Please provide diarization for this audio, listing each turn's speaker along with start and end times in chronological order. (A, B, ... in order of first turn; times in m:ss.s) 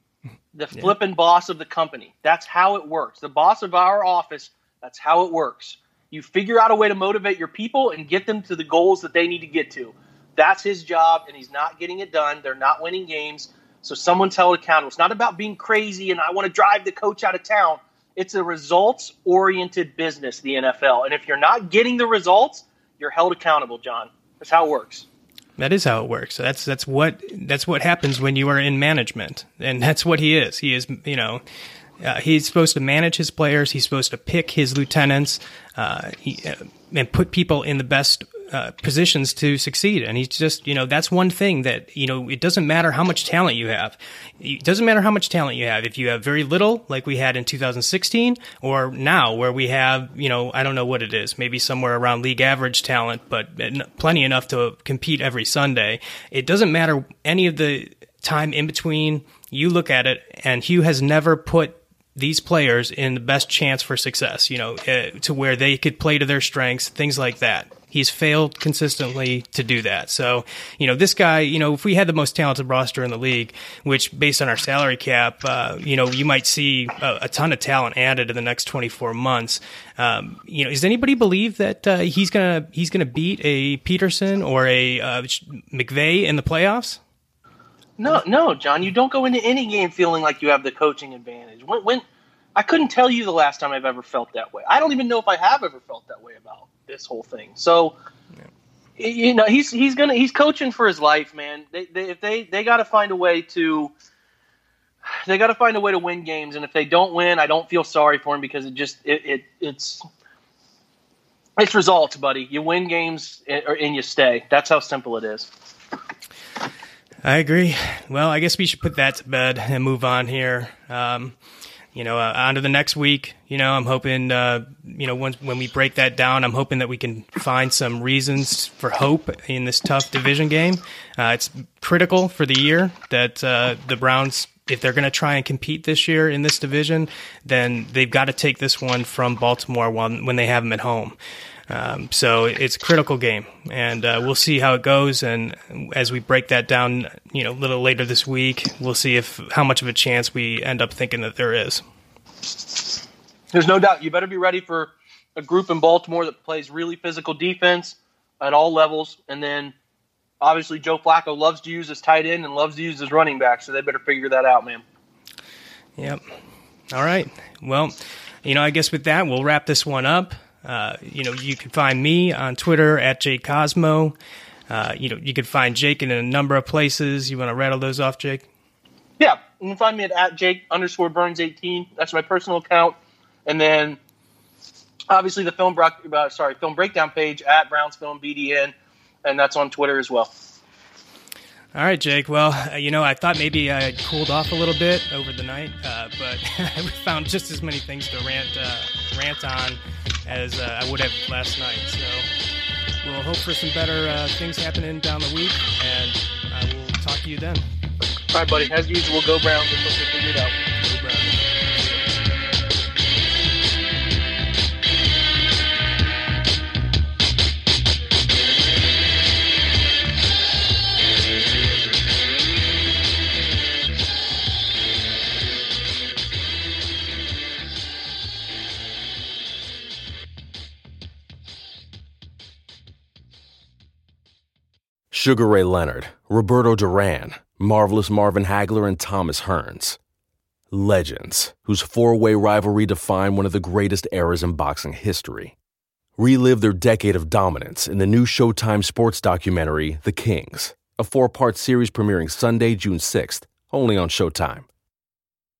0:00.5-0:25.0 A
0:25.6-0:31.4 B
0:32.0-1:27.0 B
1:28.0-1:38.0 A
1:39.0-1:43.9 A
1:45.1-1:50.0 A
1:51.6-1:55.5 A
1:57.2-2:01.3 B
2:01.9-2:21.2 B
2:21.7-2:31.8 B
2:33.5-2:39.7 A
2:40.4-2:44.8 A
2:46.0-2:46.2 B
2:46.9-2:54.1 B
2:54.7-2:58.4 B
2:59.2-3:04.0 A
3:05.1-3:10.3 A
3:11.7-3:22.3 B
3:23.0-3:27.6 B
3:28.3-3:30.6 A
3:30.8-3:32.0 B
3:55.1-4:00.0 C
4:00.7-4:05.6 C
4:06.2-4:14.7 C